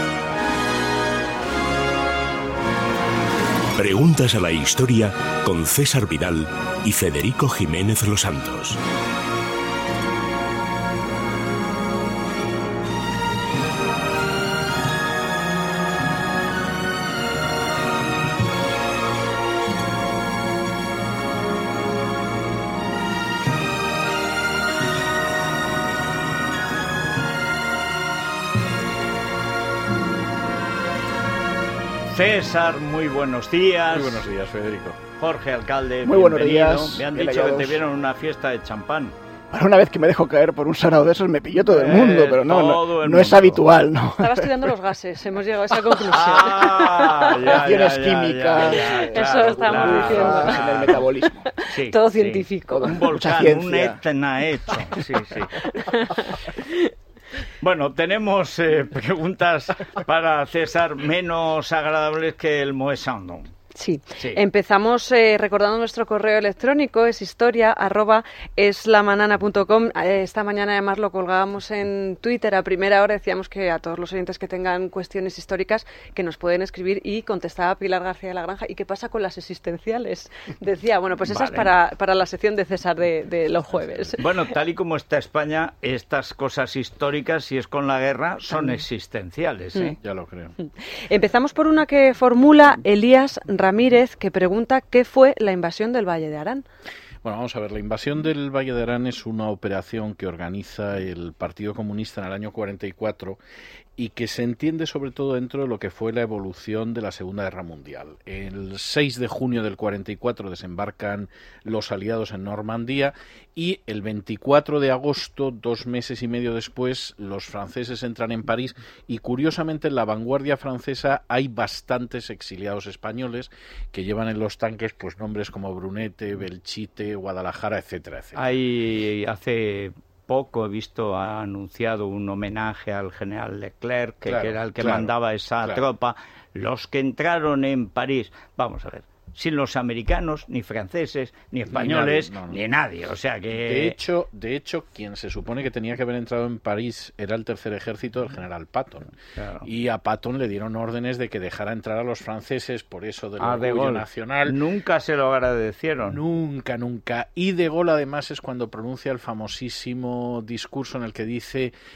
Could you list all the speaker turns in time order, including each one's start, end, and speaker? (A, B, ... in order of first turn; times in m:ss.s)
0:03.8-0:08.8 A
0:32.1-0:34.3 B
0:33.9-0:35.0 C
0:35.2-0:39.2 B
0:36.0-0:37.8 D
0:39.5-0:44.7 D
0:41.7-0:43.6 B
0:44.2-0:47.5 E
0:46.0-0:51.0 B
0:47.4-0:51.5 D
0:48.6-0:50.9 E
0:51.5-0:53.1 E
0:51.6-0:55.7 B
0:52.7-0:54.0 D
0:55.6-0:56.9 E
0:57.6-1:03.5 B
1:03.7-1:24.3 E
1:21.2-1:21.7 B
1:23.7-1:24.2 C
1:24.2-1:30.0 B
1:30.0-1:30.5 C
1:30.6-1:36.6 E
1:37.2-1:43.4 C
1:44.0-2:08.4 C
2:08.3-2:24.0 B
2:14.2-2:15.8 C
2:21.7-2:22.6 C
2:23.6-2:34.6 C
2:29.4-2:29.7 B
2:33.4-2:36.2 B
2:36.0-2:41.7 C